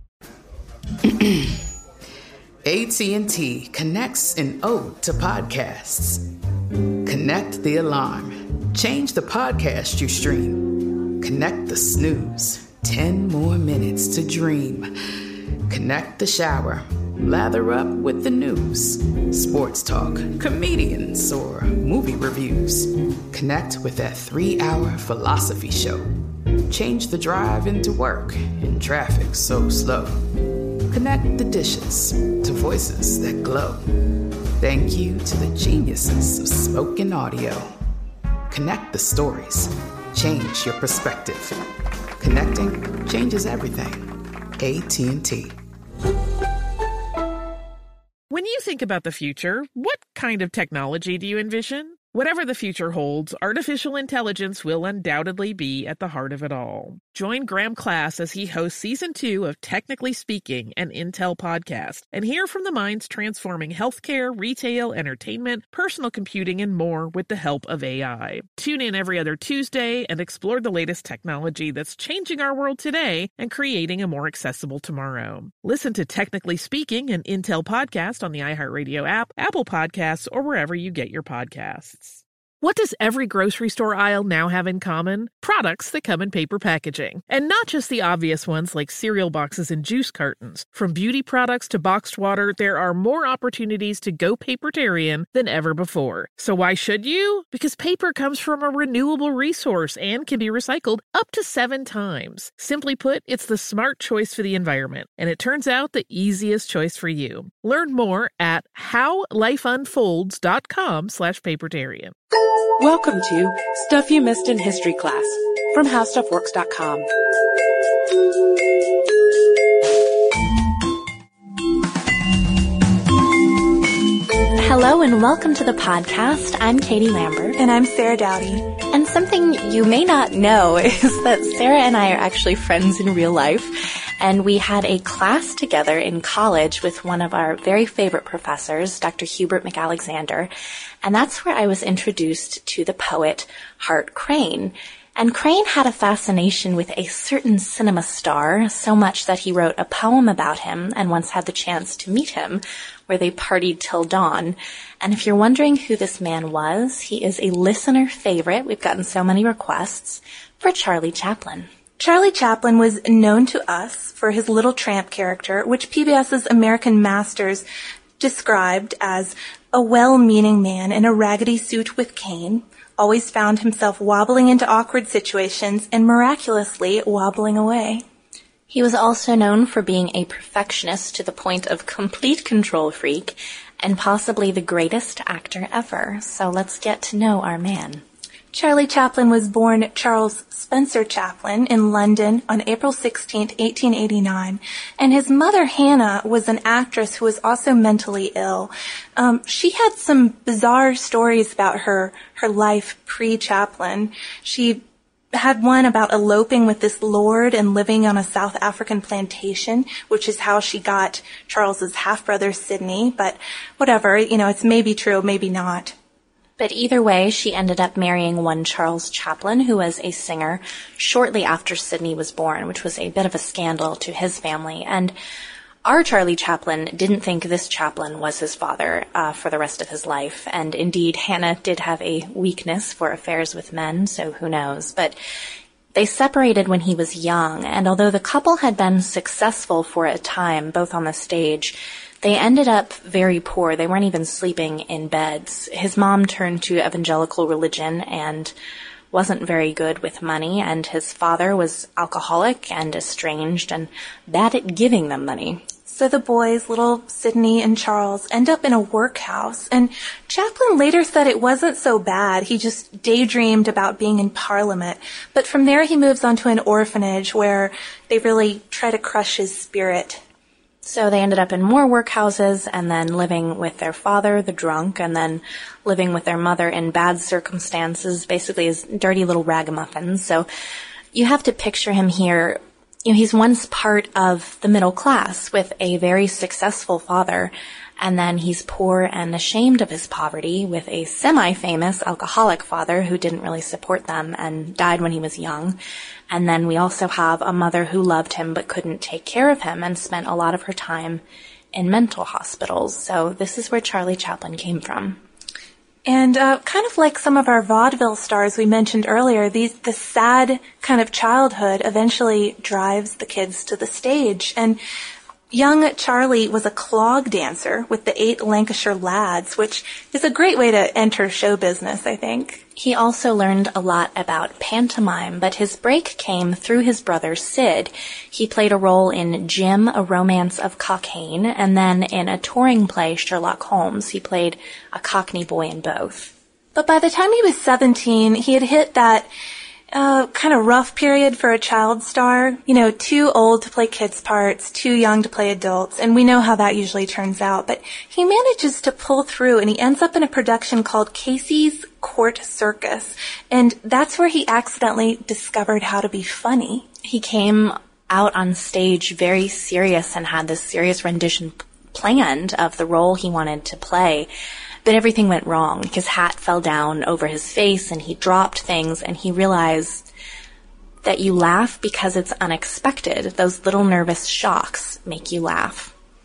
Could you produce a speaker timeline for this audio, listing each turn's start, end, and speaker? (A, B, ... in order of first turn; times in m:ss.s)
0:01.0-0:01.6 A
0:02.6-0:06.2 A
0:07.0-0:14.9 A
0:15.7-0:26.1 A
0:26.7-0:30.2 A
0:30.9-0:33.8 A
0:34.6-0:37.7 A
0:38.5-0:41.6 A
0:42.2-0:44.1 A
0:44.6-0:45.6 A
0:48.3-1:52.1 B
1:52.8-1:57.1 C
2:04.6-2:07.6 D
2:07.6-2:08.7 E
2:08.9-2:20.5 D
2:21.0-2:41.7 D
2:42.0-2:47.6 E
2:48.2-2:58.0 E
2:58.7-3:08.0 D
3:08.5-3:24.8 E
3:25.3-3:35.9 E
3:36.6-3:45.1 D
3:45.8-3:55.2 D
3:55.9-4:08.5 D
4:09.1-4:15.6 D
4:15.9-4:30.2 E
4:30.8-4:40.5 D
4:41.1-4:55.8 D
4:56.3-5:01.2 D
5:01.7-5:05.2 D
5:06.0-5:14.8 E
5:15.5-5:22.6 E
5:22.8-5:36.3 D
5:36.7-5:39.3 E
5:39.9-5:56.9 E
5:57.0-6:04.3 D
6:04.8-6:10.0 D
6:11.0-6:15.9 D